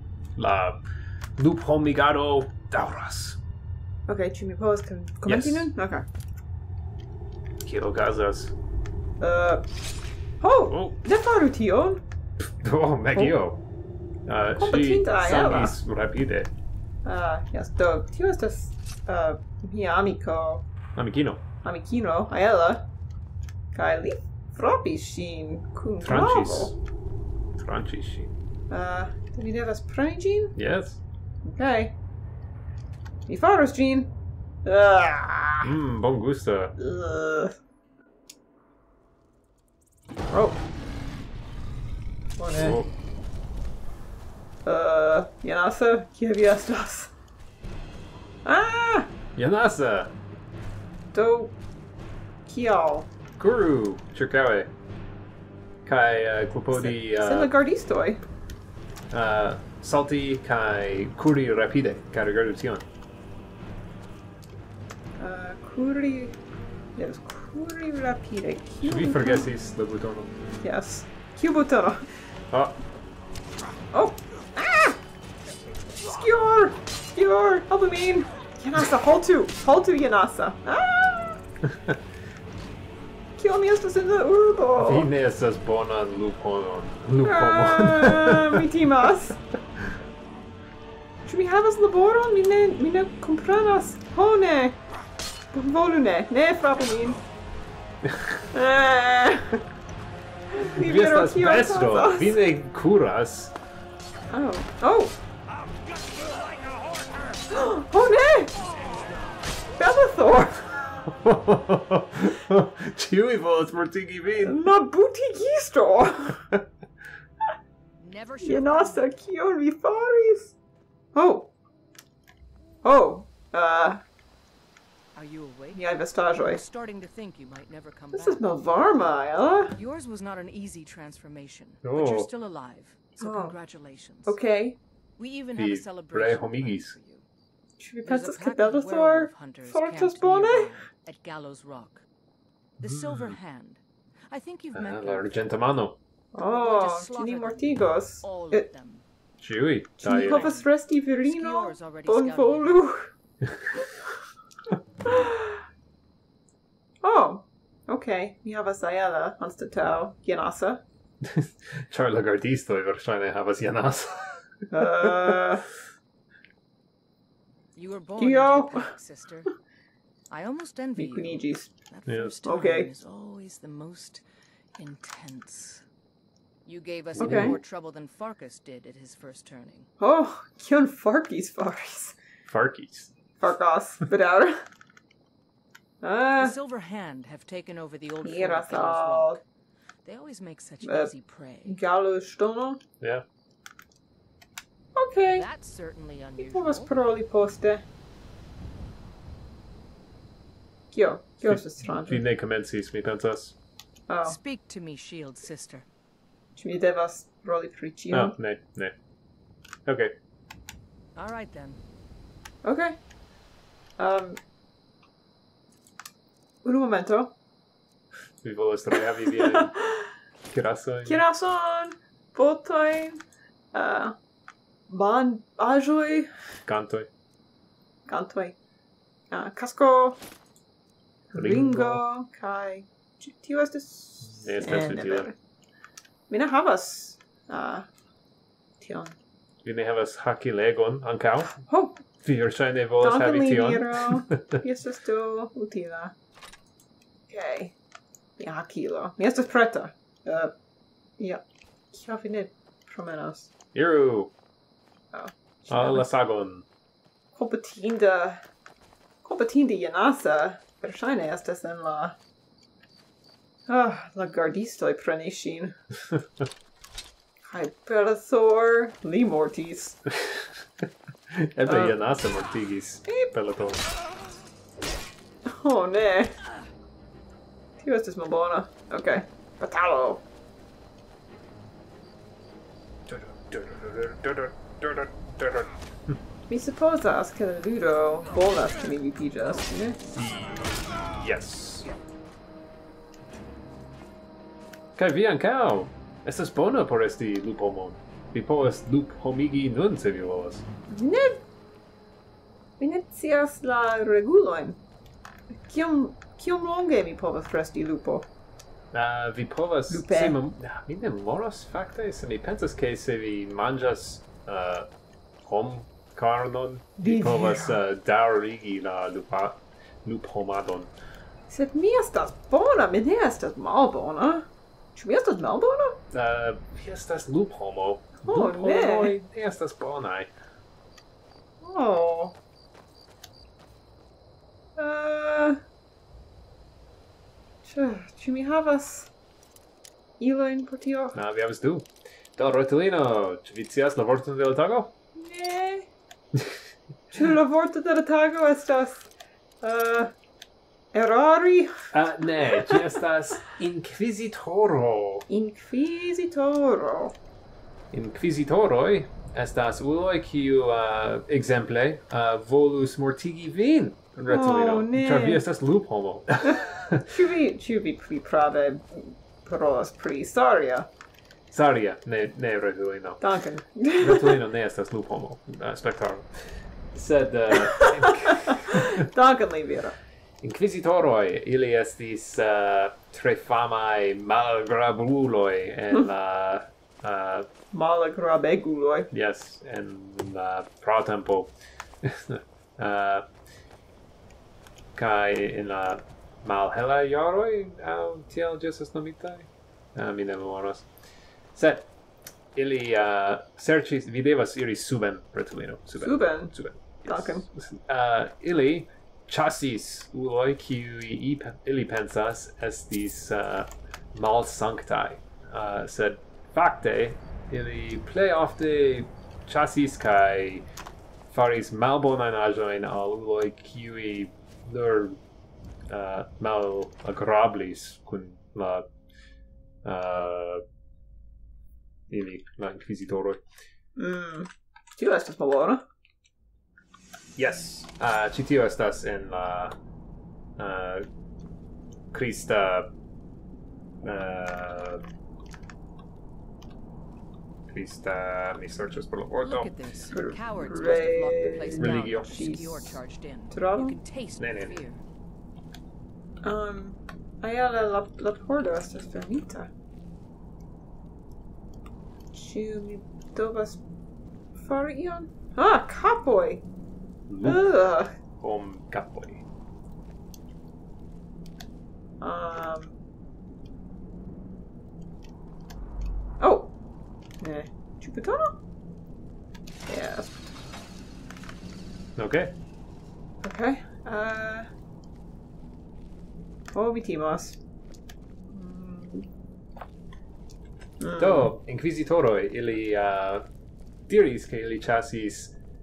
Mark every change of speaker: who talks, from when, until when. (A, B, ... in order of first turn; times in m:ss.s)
0:00.4-0:00.8 A
0:01.4-0:03.4 A
0:04.1-0:06.0 B
0:05.2-0:05.7 A
0:07.6-0:08.5 A
0:09.2-0:09.6 B
0:10.4-0:12.0 B
0:10.7-0:11.0 A
0:12.6-0:13.6 A
0:14.3-0:16.5 A
0:14.6-0:15.8 B
0:17.0-0:20.6 B
0:21.0-0:21.4 A
0:21.6-0:22.8 B
0:23.7-0:26.7 B
0:26.0-0:26.8 A
0:27.6-0:28.3 A
0:28.7-0:30.6 B
0:30.6-0:31.0 A
0:31.4-0:32.0 B
0:33.3-0:34.1 B
0:34.6-0:35.7 B
0:35.6-0:36.7 A
0:36.8-0:37.5 B
0:40.3-0:40.6 B
0:42.4-0:42.8 B
0:42.6-0:42.9 A
0:44.6-0:47.1 B
0:48.4-0:49.1 B
0:49.4-0:50.1 A
0:51.1-0:51.6 B
0:52.5-0:53.1 B
0:53.4-0:54.7 A
0:55.8-0:57.5 A
0:56.7-0:58.2 B
0:59.1-1:02.8 A
1:05.2-1:06.4 B
1:07.0-1:09.5 B
1:08.8-1:10.3 A
1:10.6-1:12.0 B
1:12.5-1:12.8 A
1:13.9-1:15.0 B
1:16.0-1:21.4 B
1:21.7-1:22.0 A
1:23.4-1:25.1 B
1:24.8-1:28.6 A
1:27.2-1:29.4 B
1:31.2-1:34.8 B
1:35.5-1:37.2 B
1:38.1-1:38.4 A
1:38.5-1:39.6 B
1:40.5-1:42.4 B
1:40.7-1:43.5 A
1:44.3-1:45.2 B
1:47.5-1:48.6 B
1:49.8-1:50.8 B
1:51.1-1:54.6 A
1:54.4-1:56.5 B
1:58.0-1:59.2 C
1:58.4-2:00.6 B
2:01.1-2:01.5 B
2:02.8-2:04.0 B
2:05.1-2:08.4 C
2:05.7-2:06.6 B
2:08.1-2:09.8 B
2:09.8-2:14.4 C
2:11.8-2:12.3 A
2:13.2-2:13.6 B
2:14.2-2:14.8 B
2:15.2-2:17.2 C
2:15.6-2:16.9 A
2:17.8-2:20.7 B
2:18.0-2:22.0 C
2:22.8-2:25.5 C
2:22.8-2:23.4 A
2:24.8-2:26.0 A
2:26.3-2:28.7 B
2:26.4-2:29.1 C
2:29.4-2:30.5 A
2:30.0-2:33.1 B
2:30.0-2:32.9 C
2:35.1-2:35.6 B
2:37.0-2:40.8 B
2:41.2-2:44.4 A
2:44.7-2:45.6 B
2:47.8-2:49.5 C
2:48.2-2:48.9 B
2:50.3-2:54.2 C
2:51.0-2:51.7 B
2:52.1-2:52.3 A
2:52.4-2:52.9 B
2:54.8-2:55.8 C
2:56.6-2:59.9 C
2:57.2-2:57.6 A
2:57.2-2:57.6 B
3:00.0-3:02.2 B
3:02.5-3:03.1 A
3:03.4-3:04.6 B
3:06.0-3:06.6 B
3:06.4-3:09.4 C
3:08.2-3:09.4 B
3:10.0-3:11.8 C
3:10.8-3:11.1 B
3:11.6-3:12.8 B
3:15.0-3:15.5 B
3:15.2-3:17.0 C
3:16.4-3:17.8 B
3:20.9-3:22.2 B
3:21.5-3:23.6 A
3:24.1-3:24.4 B
3:24.2-3:25.8 C
3:26.6-3:28.4 B
3:28.1-3:28.9 A
3:29.8-3:30.1 A
3:31.2-3:31.8 C
3:32.6-3:33.0 B
3:34.0-3:34.4 B
3:36.6-3:37.3 B
3:38.4-3:39.7 A
3:39.0-3:40.1 B
3:40.5-3:41.2 A
3:41.1-3:43.2 B
3:43.7-3:44.2 B
3:44.9-3:46.3 B
3:46.7-3:47.1 A
3:48.1-3:48.6 B
3:49.3-3:50.2 B
3:51.3-3:55.3 B
3:51.3-3:52.0 A
3:54.4-3:55.3 A
3:56.3-3:57.8 B
3:58.8-3:59.2 B
3:59.6-4:01.6 A
4:01.6-4:02.0 B
4:02.2-4:04.6 A
4:03.0-4:06.1 B
4:07.3-4:07.8 B
4:08.4-4:10.5 B
4:11.2-4:13.5 B
4:13.7-4:14.3 A
4:15.1-4:16.1 B
4:15.7-4:16.7 A
4:17.3-4:18.4 B
4:19.2-4:22.2 B
4:23.7-4:25.8 B
4:27.5-4:30.0 B
4:31.3-4:33.8 A
4:31.7-4:32.0 B
4:35.5-4:36.3 B
4:37.8-4:40.2 B
4:43.1-4:45.7 A
4:46.5-4:50.0 B
4:50.1-4:51.9 A
4:55.0-5:00.6 A
5:00.9-5:01.4 B
5:02.8-5:04.8 B
5:05.5-5:08.3 B
5:08.9-5:14.9 A
5:09.9-5:10.4 B
5:15.4-5:20.9 A
5:17.0-5:17.8 B
5:21.5-5:26.0 B
5:26.1-5:30.3 A
5:28.2-5:29.1 B
5:31.6-5:32.4 B
5:34.8-5:35.6 B
5:37.6-5:39.1 B
5:40.2-5:41.2 B
5:41.1-5:44.9 A
5:45.2-5:45.9 B
5:47.1-5:49.1 B
5:49.6-5:50.1 B
5:50.9-5:51.9 B
5:51.9-5:55.3 A
5:52.4-5:52.9 B
5:55.3-5:57.2 B
5:57.9-6:07.1 A
6:04.3-6:05.4 B
6:06.4-6:10.9 B
6:11.5-6:13.2 A
6:13.2-6:14.4 B
6:14.0-6:19.0 A
6:17.5-6:20.0 B
6:20.4-6:27.5 A
6:27.7-6:29.1 B
6:29.1-6:33.3 A
6:35.0-6:40.9 A
6:41.5-6:41.9 A
6:42.6-7:00.6 A
6:46.0-6:46.5 B
6:47.0-6:47.4 B
7:01.3-7:05.2 A
7:05.9-7:08.9 A
7:09.8-7:10.6 A
7:12.1-7:13.4 A
7:14.0-7:15.8 B
7:17.4-7:19.7 A
7:20.6-7:21.1 A
7:22.1-7:22.9 A
7:24.0-7:25.0 A
7:27.7-7:29.7 A
7:29.4-7:35.0 C
7:30.1-7:34.0 B
7:31.8-7:32.3 A
7:34.4-7:34.8 A
7:36.4-7:39.7 B
7:42.3-7:43.8 B
7:44.6-7:46.6 B
7:47.3-7:47.7 A
7:47.4-7:48.1 B
7:48.4-7:49.4 A
7:52.2-7:53.0 B
7:56.4-7:56.7 B
7:57.4-7:58.5 B
7:59.9-8:00.3 B
8:02.2-8:02.5 A
8:03.4-8:04.7 B
8:06.7-8:07.6 B
8:08.5-8:09.3 B
8:11.0-8:11.5 B
8:11.2-8:13.5 A
8:14.1-8:15.6 A